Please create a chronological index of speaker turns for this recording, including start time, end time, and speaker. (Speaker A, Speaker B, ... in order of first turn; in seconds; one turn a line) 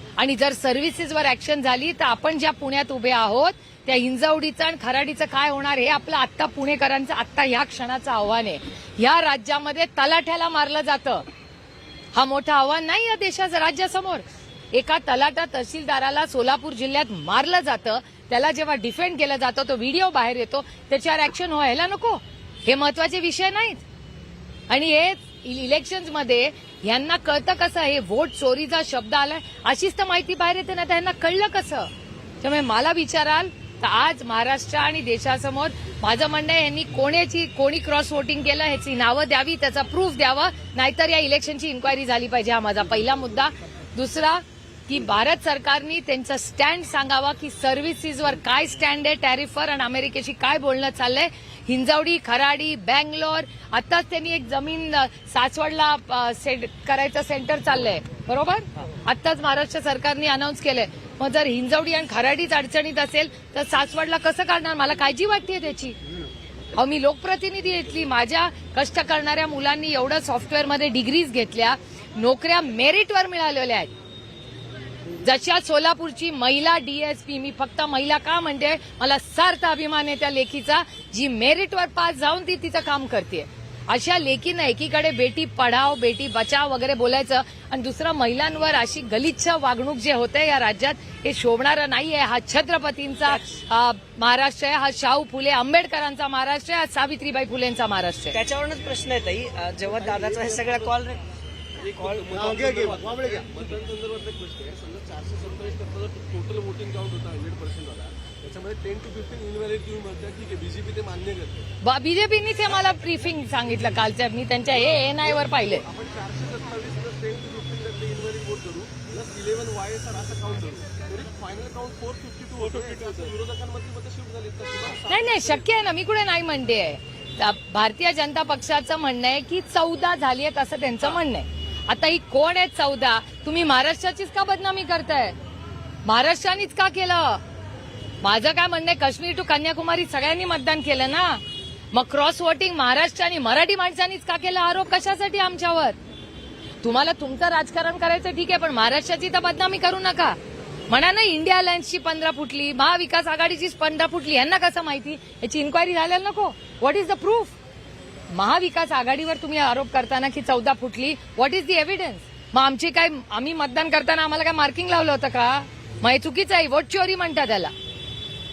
Speaker A: 0.2-11.3
Speaker A: 12.1-23.8
Speaker A: 24.7-31.9
Speaker A: 32.4-66.0
Speaker A: 66.7-73.9
Speaker A: 75.2-98.4
Speaker B: 93.2-93.6
Speaker B: 98.3-101.2
Speaker C: 100.0-100.7
Speaker C: 101.8-111.7
Speaker B: 102.0-103.1
Speaker A: 111.8-115.8
Speaker C: 115.1-125.7
Speaker A: 125.1-135.4
Speaker A: 136.1-137.4
Speaker A: 138.2-146.0
Speaker A: 146.8-150.4
Speaker A: 150.9-157.6
Speaker A: 158.3-167.7